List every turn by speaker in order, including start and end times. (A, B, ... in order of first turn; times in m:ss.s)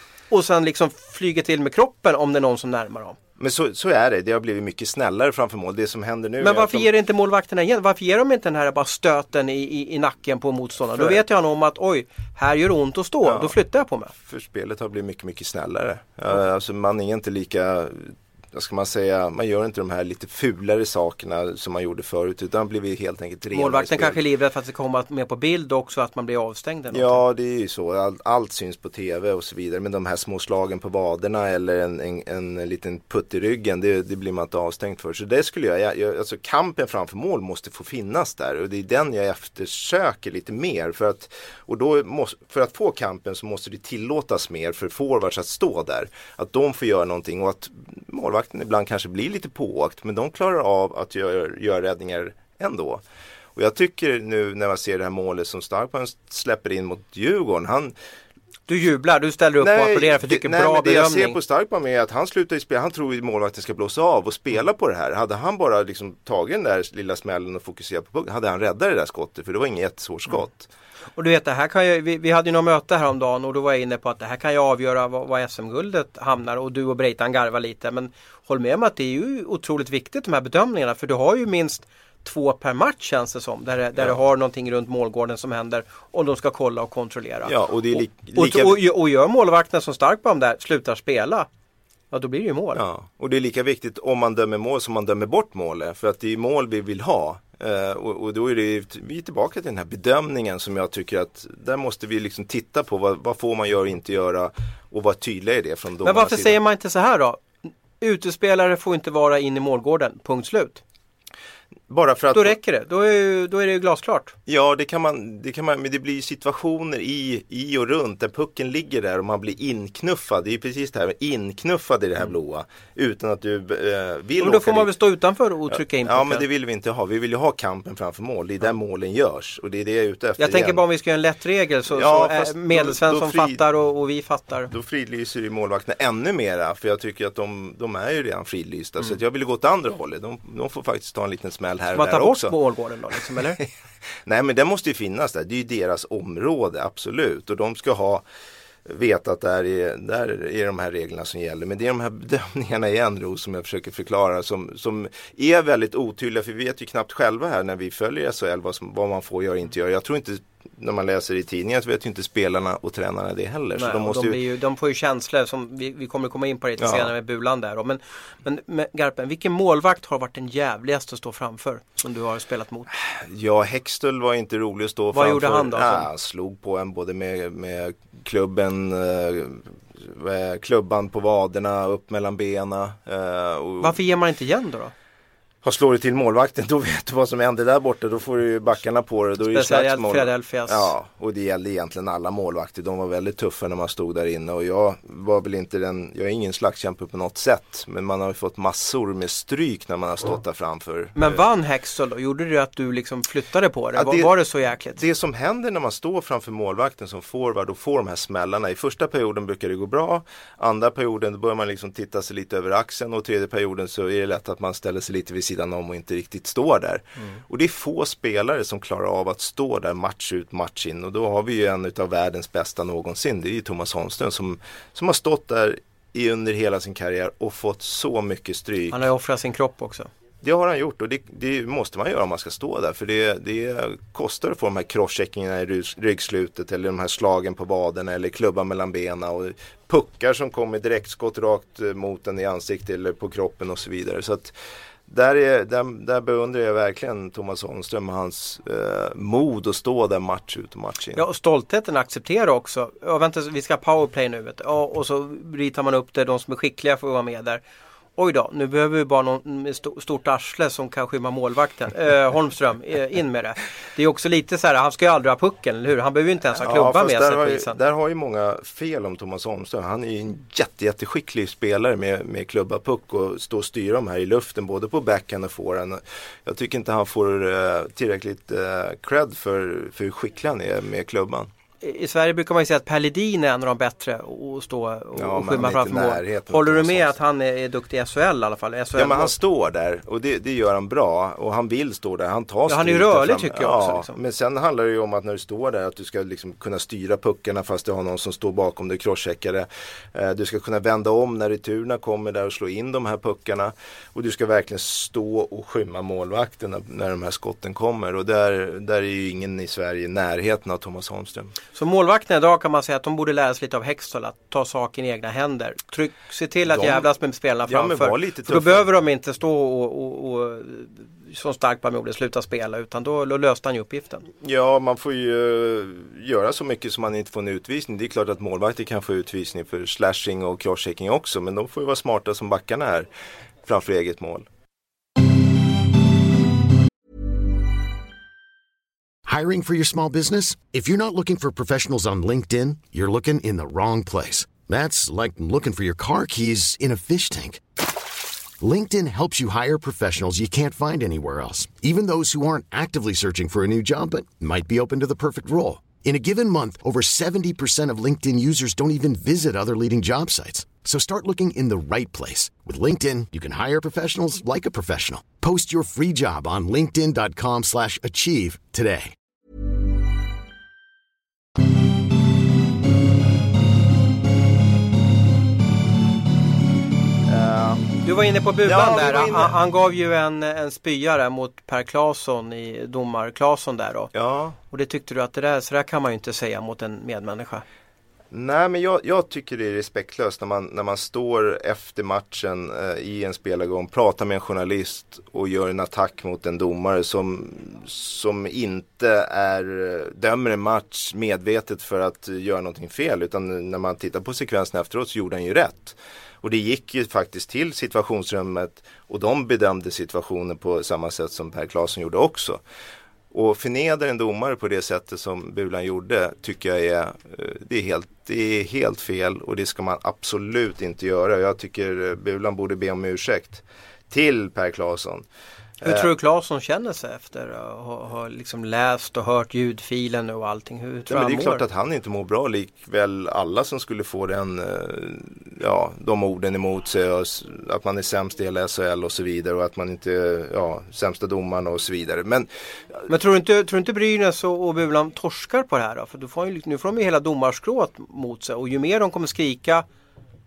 0:00.3-0:03.2 A
0:03.4-0:06.9 B
0:06.4-0:14.1 A
0:10.9-0:11.2 B
0:13.2-0:13.6 B
0:14.1-0:24.2 B
0:23.5-0:27.2 A
0:26.9-0:53.0 B
0:53.5-0:57.9 B
0:58.7-1:01.4 A
0:59.6-1:10.7 B
1:11.2-1:31.5 A
1:27.4-1:28.8 B
1:32.1-1:32.8 A
1:32.7-1:46.6 B
1:46.0-1:50.8 A
1:51.9-1:52.6 B
1:52.3-1:54.3 A
1:54.5-2:04.9 B
2:04.4-2:06.4 A
2:05.7-2:10.8 B
2:10.4-2:14.7 A
2:11.9-2:13.6 B
2:14.7-2:22.5 B
2:21.9-2:23.6 A
2:24.2-2:28.2 B
2:28.8-2:44.4 B
2:43.8-2:52.9 A
2:46.8-2:47.1 B
2:52.9-3:04.0 B
2:55.1-2:56.1 A
3:03.8-3:04.9 A
3:05.6-3:21.4 B
3:09.5-3:10.9 A
3:21.2-3:25.0 A
3:23.9-3:24.3 B
3:25.0-3:49.1 B
3:48.9-3:50.1 A
3:50.4-4:04.5 B
4:05.1-4:11.2 B
4:11.1-4:17.6 A
4:18.2-4:27.8 A
4:26.5-4:41.5 B
4:41.8-4:49.3 A
4:45.1-4:47.2 B
4:49.0-5:11.5 B
4:52.7-4:54.2 A
5:11.7-5:24.2 A
5:16.7-5:17.1 B
5:17.6-5:18.9 B
5:24.4-5:33.1 B
5:33.6-5:34.4 B
5:39.2-5:47.6 C
5:48.6-6:09.1 C
6:17.2-6:17.9 B
6:18.0-6:24.1 A
6:18.6-6:19.6 B
6:24.1-6:24.6 B
6:24.7-6:27.6 A
6:28.3-6:52.6 B
6:53.3-7:05.2 B
7:05.8-7:06.1 B
7:05.8-7:11.6 A
7:11.1-7:22.5 B
7:23.1-7:29.8 A